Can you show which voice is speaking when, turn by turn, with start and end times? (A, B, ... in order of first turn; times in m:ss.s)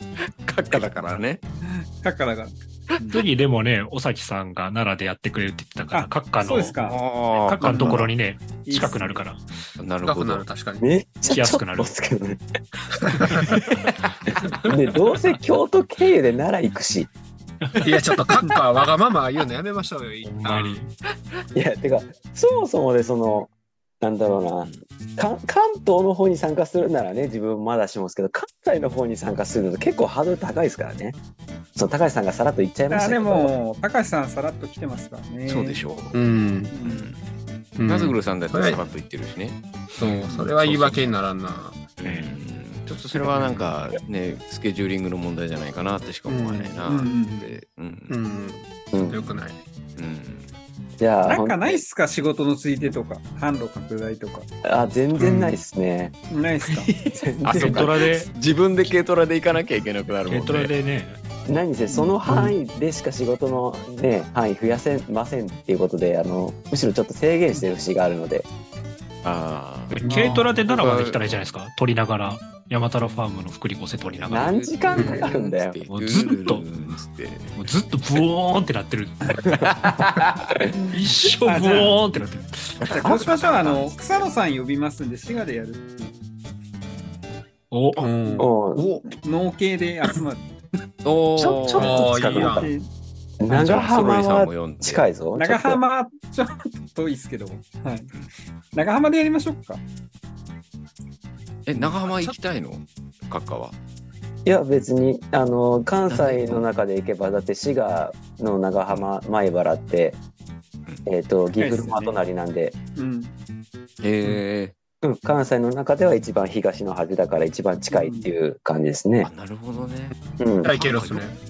0:00.4-0:01.4 A
0:01.6-0:03.2 B
0:03.1-0:06.8 C
0:05.9-0:07.0 B
0:06.8-0:08.1 A
0:07.5-0:09.4 C
0:07.5-0:09.2 B
0:09.8-0:10.4 A
0:10.0-0:10.8 D
0:10.8-0:12.4 E
0:11.2-0:11.9 C
0:13.0-0:13.5 D
0:14.6-0:17.1 E
0:17.7-0:17.9 C
0:17.8-0:20.8 D
0:20.2-0:20.9 C
0:21.5-0:31.2 E
0:31.8-0:33.5 E
0:32.9-0:35.8 B
0:35.4-0:36.2 A
0:36.1-0:36.7 D
0:36.7-0:37.1 B
0:36.8-0:37.2 A
0:37.8-0:38.8 D
0:37.9-0:41.1 A
0:40.0-0:41.8 D
0:42.0-0:48.2 A
0:43.4-0:43.6 D
0:46.3-0:46.8 D
0:46.8-0:47.6 B
0:48.1-0:49.6 D
0:48.9-0:49.3 E
0:50.0-0:50.5 A
0:51.0-0:51.8 E
0:51.2-0:54.5 B
0:54.6-0:56.1 E
0:55.2-0:55.6 B
0:56.3-0:57.1 B
0:57.1-0:57.9 E
0:57.4-1:00.7 A
0:57.5-0:58.3 C
1:00.3-1:01.2 C
1:01.5-1:08.5 E
1:01.9-1:02.5 B
1:09.2-1:11.5 A
1:09.9-1:14.6 C
1:10.0-1:10.5 B
1:14.0-1:17.6 A
1:14.3-1:15.8 E
1:15.0-1:15.2 D
1:15.0-1:15.2 B
1:15.9-1:16.6 C
1:17.6-1:19.5 C
1:19.6-1:20.4 A
1:20.9-1:22.8 C
1:21.4-1:22.0 B
1:22.8-1:24.3 A
1:22.9-1:26.2 B
1:27.7-1:28.0 C
1:28.0-1:28.5 D
1:28.2-1:28.5 B
1:28.4-1:29.0 E
1:28.8-1:29.1 A
1:29.2-1:30.5 B
1:31.0-1:32.0 A
1:31.4-1:32.7 E
1:31.7-1:32.7 D
1:32.2-1:32.9 B
1:33.4-1:35.8 E
1:33.5-1:35.2 A
1:33.6-1:33.9 B
1:35.3-1:38.1 B
1:38.7-1:39.8 B
1:41.6-1:43.8 A
1:42.0-1:42.4 D
1:44.4-1:50.2 E
1:46.1-1:46.6 A
1:51.0-1:52.8 E
1:51.6-1:52.2 B
1:53.0-1:53.3 B
1:54.0-1:54.7 A
1:55.0-1:59.3 E
1:57.9-1:58.3 B
1:59.2-2:00.1 A
2:00.4-2:00.7 E
2:00.6-2:01.3 D
2:00.7-2:01.3 A